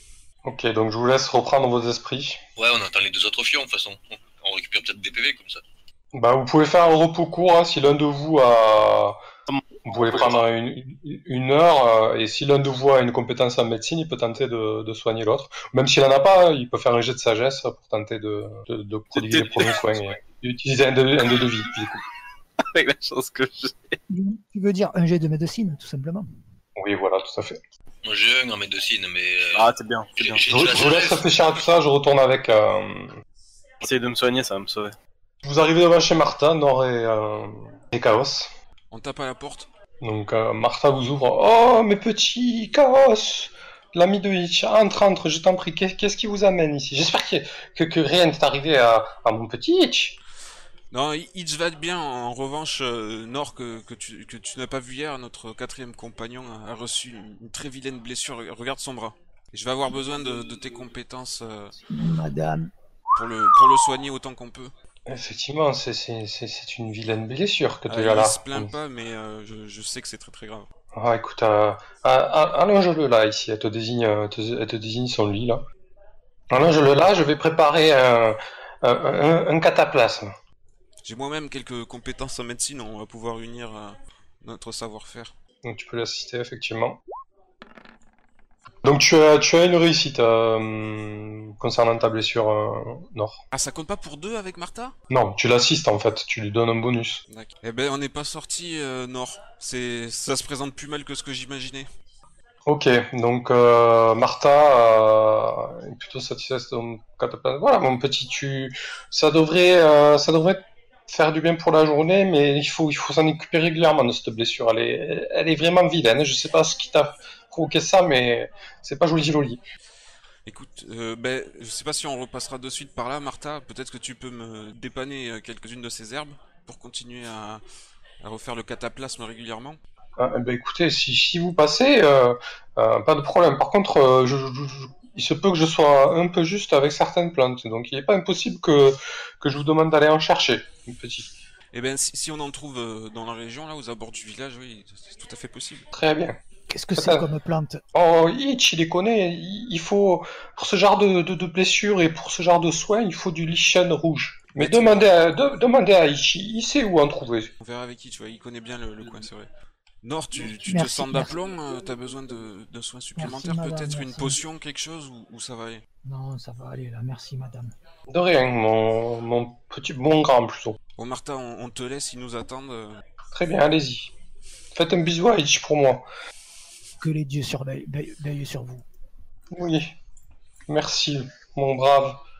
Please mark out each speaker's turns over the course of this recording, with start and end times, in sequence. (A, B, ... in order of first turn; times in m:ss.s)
0:00.4-0:02.4 A
0:02.6-0:05.6 B
0:06.1-0:09.2 A
0:09.5-0:10.3 C
0:09.8-0:22.0 A
0:19.3-0:20.1 B
0:22.6-0:24.0 C
0:24.1-0:26.3 D
0:26.8-0:27.6 A
0:28.0-0:31.4 B
0:29.5-0:30.4 C
0:30.4-0:33.2 A
0:33.8-0:34.9 C
0:35.4-0:38.5 A
0:38.9-0:39.7 E
0:40.0-0:50.2 A
0:50.9-1:01.8 E
1:01.9-1:02.7 D
1:03.1-1:04.7 E
1:05.1-1:08.7 A
1:07.9-1:10.7 E
1:10.9-1:15.6 A
1:16.5-1:20.3 A
1:21.0-1:25.3 E
1:25.6-1:27.0 A
1:28.8-1:33.4 A
1:33.5-1:34.9 E
1:35.1-1:37.2 A
1:37.3-1:41.9 E
1:42.6-1:59.6 A
2:00.4-2:07.6 E
2:08.2-2:09.8 E
2:10.2-2:21.3 A
2:21.7-2:25.9 E
2:25.9-2:26.4 A
2:26.7-2:27.8 D
2:27.0-2:27.2 A
2:27.9-2:37.5 A
2:34.6-2:35.1 E
2:37.6-2:39.5 E
2:40.0-2:45.8 E
2:40.6-2:41.3 D
2:43.2-2:44.4 D
2:46.0-2:47.7 D
2:48.1-2:50.8 A
2:51.0-2:53.0 E
2:53.3-2:54.1 A
2:54.7-2:56.0 A
2:57.0-2:58.8 D
2:59.5-3:00.0 A
3:00.7-3:02.2 A